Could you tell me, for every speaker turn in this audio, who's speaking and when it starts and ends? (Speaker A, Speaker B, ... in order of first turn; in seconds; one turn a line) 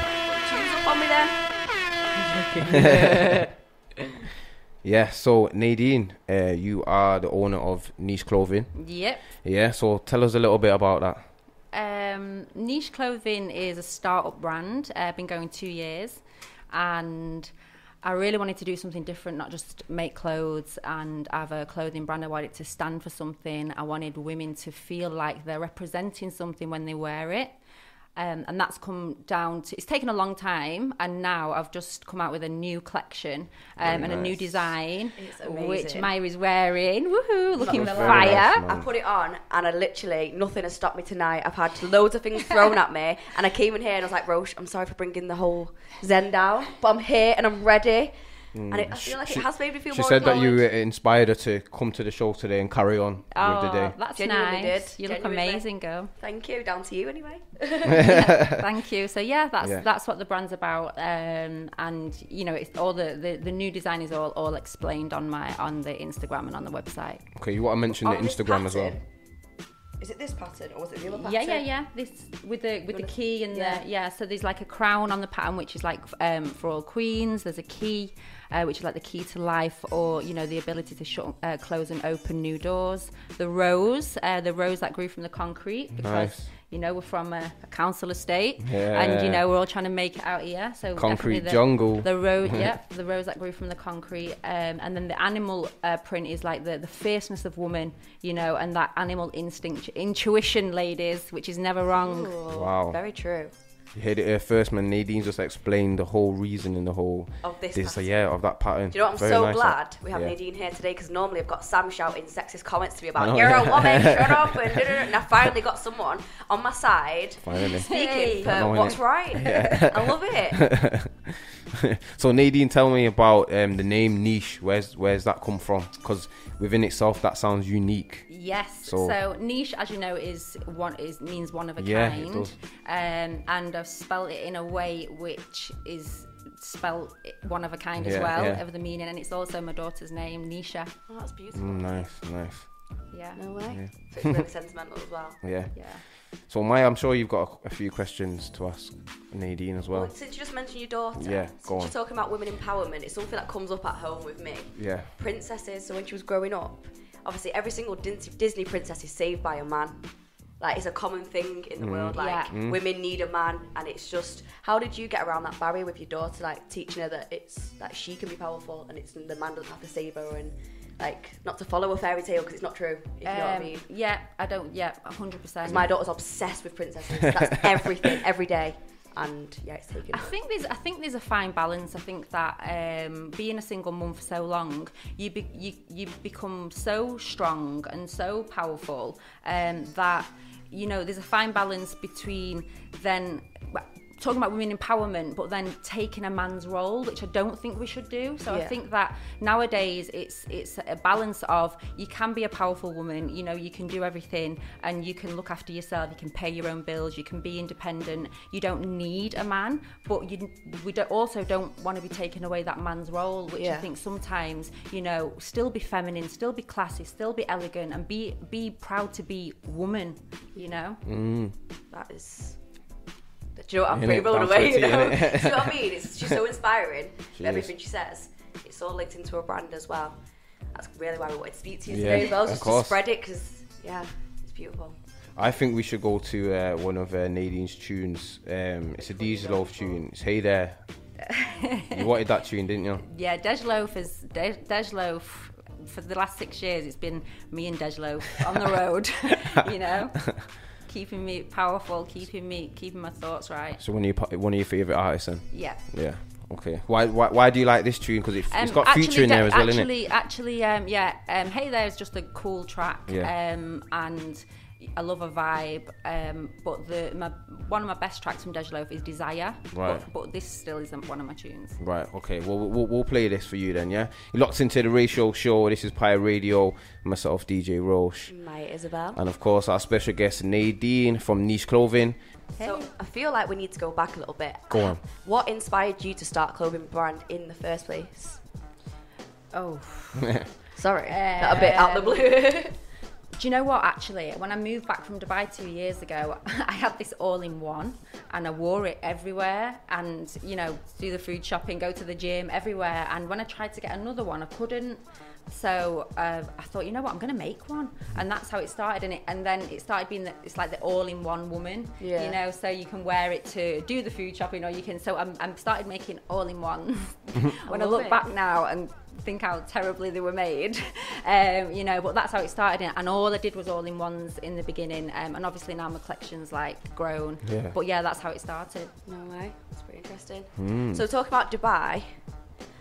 Speaker A: 0.3-3.4
Speaker B: 4.8-11.3
Speaker C: 8.7-9.2
Speaker C: 11.7-17.5
Speaker C: 18.0-27.6
Speaker C: 28.1-38.6
Speaker B: 33.8-34.8
Speaker A: 35.2-36.1
Speaker B: 37.6-38.9
Speaker A: 37.6-50.7
Speaker B: 48.5-54.0
Speaker C: 53.3-56.1
Speaker A: 54.1-58.1
Speaker C: 58.0-67.3
Speaker B: 58.1-58.5
Speaker B: 59.6-59.9
Speaker B: 67.3-69.0
Speaker A: 68.0-69.1
Speaker A: 70.0-71.7
Speaker C: 71.1-102.4
Speaker A: 72.9-73.8
Speaker B: 86.0-86.5
Speaker B: 88.6-89.4
Speaker B: 90.9-92.7
Speaker A: 101.9-103.5
Speaker B: 102.5-103.0
Speaker B: 103.9-110.4
Speaker A: 107.4-120.7
Speaker B: 113.2-114.8
Speaker B: 117.4-121.3
Speaker C: 117.6-119.8
Speaker B: 121.9-128.3
Speaker C: 128.3-140.9
Speaker B: 128.8-129.2
Speaker B: 131.8-132.5
Speaker B: 138.0-138.6
Speaker A: 141.1-142.0
Speaker B: 141.5-143.0
Speaker C: 143.1-143.4
Speaker A: 143.3-145.4
Speaker B: 143.7-144.3
Speaker B: 145.4-150.1
Speaker C: 145.7-146.0
Speaker A: 149.8-160.1
Speaker B: 151.1-151.9
Speaker B: 154.8-155.1
Speaker A: 160.6-173.8
Speaker B: 161.8-162.8
Speaker C: 162.1-162.5
Speaker C: 173.2-175.9
Speaker A: 175.6-180.3
Speaker C: 180.1-221.0
Speaker A: 198.4-198.8
Speaker A: 213.6-213.9
Speaker B: 221.0-221.5
Speaker A: 221.9-222.6
Speaker A: 223.5-230.2
Speaker B: 223.9-226.4
Speaker B: 227.3-227.7
Speaker A: 230.7-235.0
Speaker B: 231.9-233.0
Speaker B: 235.3-240.8
Speaker A: 239.0-240.0
Speaker C: 241.3-242.1
Speaker B: 241.9-243.0
Speaker C: 243.0-253.8
Speaker B: 253.8-259.9
Speaker C: 255.5-256.0
Speaker C: 258.5-271.8
Speaker B: 263.1-263.3
Speaker B: 269.7-270.1
Speaker B: 271.8-278.3
Speaker A: 278.3-279.2
Speaker B: 279.1-282.2
Speaker C: 282.6-282.9
Speaker A: 282.6-288.4
Speaker B: 284.7-285.0
Speaker C: 289.5-292.5
Speaker A: 290.8-292.8
Speaker C: 293.3-328.9
Speaker A: 312.0-312.4
Speaker A: 317.6-318.2
Speaker B: 327.4-327.7
Speaker A: 329.1-332.4
Speaker B: 330.6-331.0